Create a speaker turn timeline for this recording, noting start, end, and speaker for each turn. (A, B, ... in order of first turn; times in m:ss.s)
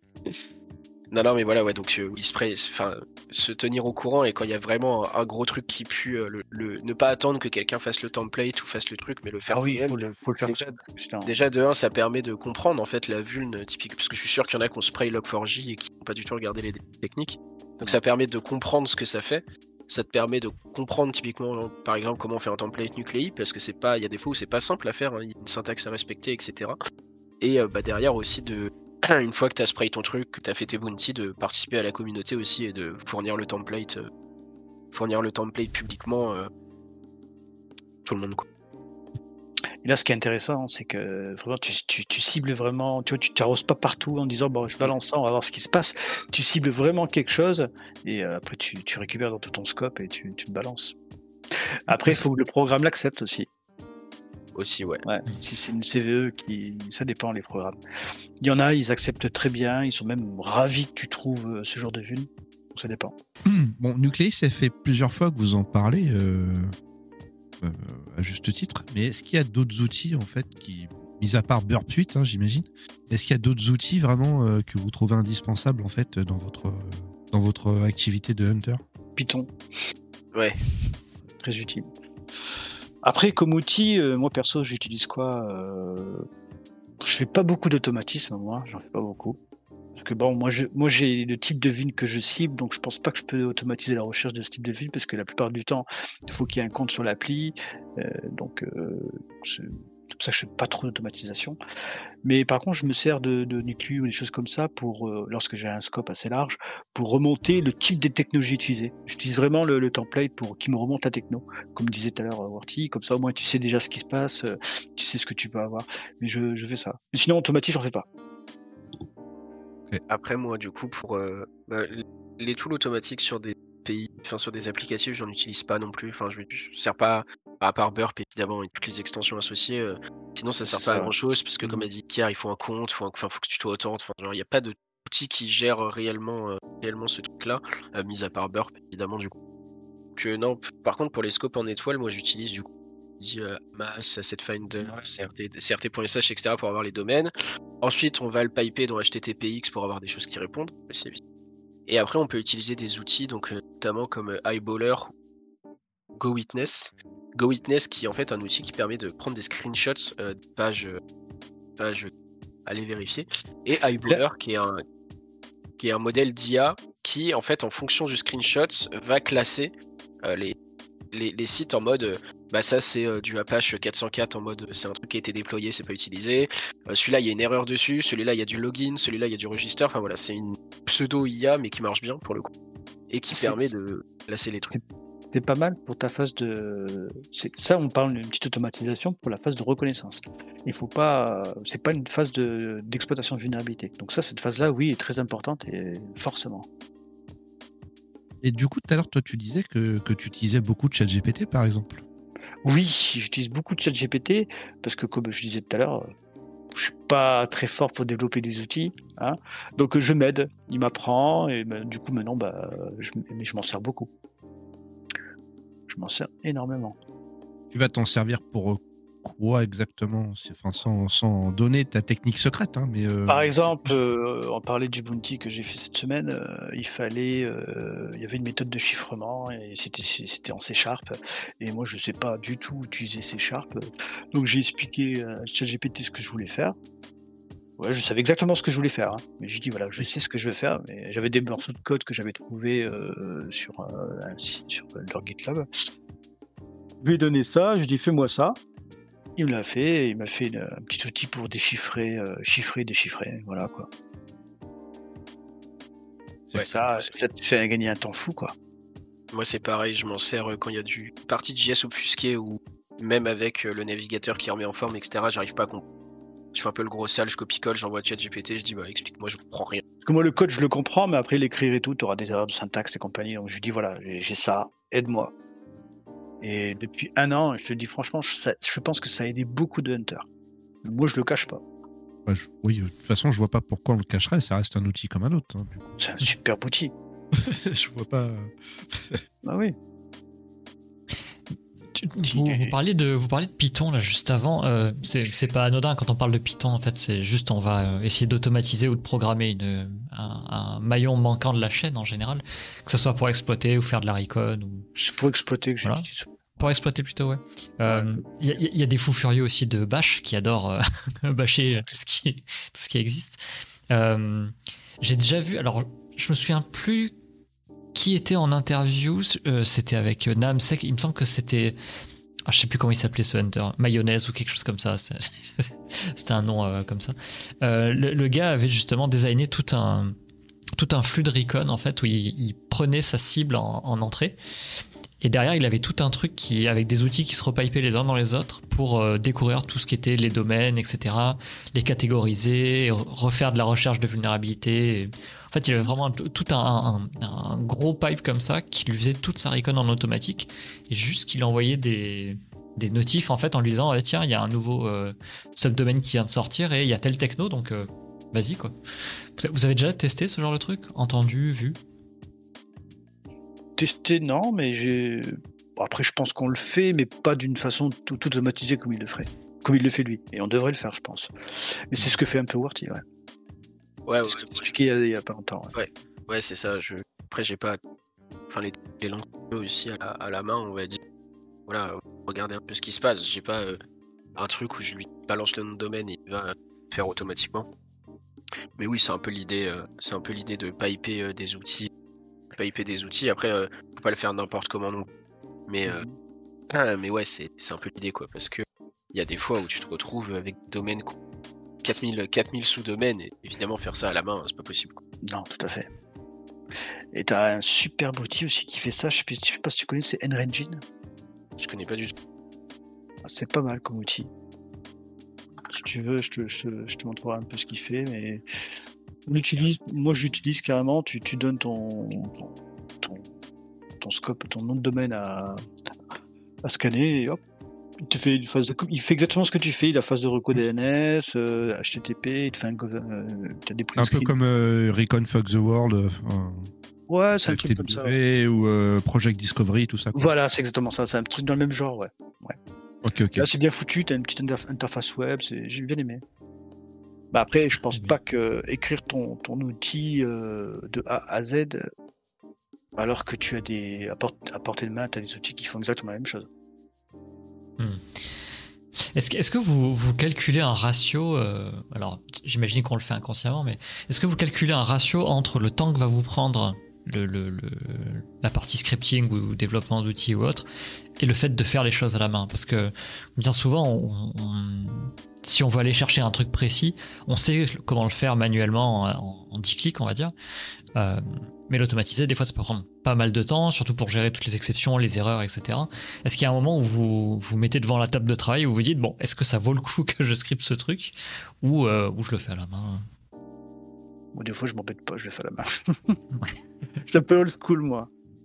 0:01.1-0:10.7 A
0:09.5-0:11.3 B
0:11.2-0:26.8 A
0:27.4-0:34.1 A
0:34.9-0:36.5 A
0:38.0-0:38.4 A
0:39.8-0:50.9 B
0:51.9-0:53.5 B
0:54.5-0:55.0 A
0:55.0-0:57.8 B
0:58.4-1:03.1 B
1:03.4-1:06.7 C
1:07.6-1:18.8 C
1:19.2-1:19.5 B
1:21.4-1:21.9 B
1:23.0-1:26.2 B
1:27.0-1:29.4 B
1:30.0-1:41.6 B
1:42.2-1:58.0 B
2:00.1-2:19.3 A
2:10.6-2:11.9 B
2:20.2-2:22.7 A
2:23.2-2:31.2 A
2:31.9-2:35.1 A
2:36.1-2:41.0 A
2:41.8-2:42.1 A
2:42.6-2:44.8 A
2:45.8-2:49.7 A
2:50.2-2:50.6 A
2:51.1-3:02.5 A
3:03.1-3:04.7 A
3:03.3-3:03.7 B
3:05.3-3:16.7 B
3:18.4-3:22.0 C
3:22.6-3:26.1 B
3:26.7-3:34.1 B
3:35.9-3:37.0 B
3:37.7-3:43.7 C
3:43.3-3:56.7 B
3:57.8-4:05.6 B
4:07.0-4:08.6 B
4:09.4-4:13.9 B
4:16.5-4:18.5 B
4:16.6-4:17.1 A
4:19.3-4:25.8 A
4:26.5-4:29.8 A
4:30.0-4:35.3 B
4:36.4-4:40.2 B
4:40.8-4:41.6 B
4:42.3-4:45.9 C
4:46.0-4:46.9 B
4:47.3-4:49.2 C
4:49.4-4:49.7 B
4:51.9-5:04.9 D
4:52.2-4:52.7 B
5:05.0-5:06.6 B
5:06.6-5:17.1 D
5:07.9-5:08.2 B
5:17.9-5:21.8 D
5:22.5-5:30.1 D
5:30.7-5:34.4 D
5:35.2-5:58.7 D
5:59.4-6:01.8 D
6:03.8-6:13.0 B
6:14.0-6:14.7 A
6:14.2-6:15.7 B
6:15.7-6:17.8 A
6:18.5-6:21.0 A
6:21.7-6:23.8 A
6:24.4-6:27.7 A
6:28.8-6:31.9 A
6:32.5-6:35.1 A
6:35.7-6:36.0 A
6:35.8-6:36.1 B
6:36.7-6:41.1 A
6:41.8-6:45.0 A
6:45.3-6:45.9 B
6:47.1-6:50.8 B
6:51.6-6:52.1 A
6:53.2-6:54.3 B
6:55.7-6:58.4 B
6:59.3-7:03.2 B
7:04.0-7:05.6 B
7:06.6-7:07.4 B
7:08.0-7:14.3 B
7:14.0-7:16.7 C
7:17.1-7:18.1 B
7:17.5-7:20.3 C
7:20.1-7:22.6 B
7:23.0-7:23.5 C
7:23.4-7:26.2 B
7:27.3-7:31.9 B
7:33.0-7:36.5 B
7:37.8-7:38.4 D
7:39.1-7:50.7 D
7:51.2-8:00.3 D
8:01.0-8:13.0 D
8:14.3-8:16.2 B
8:17.0-8:18.1 B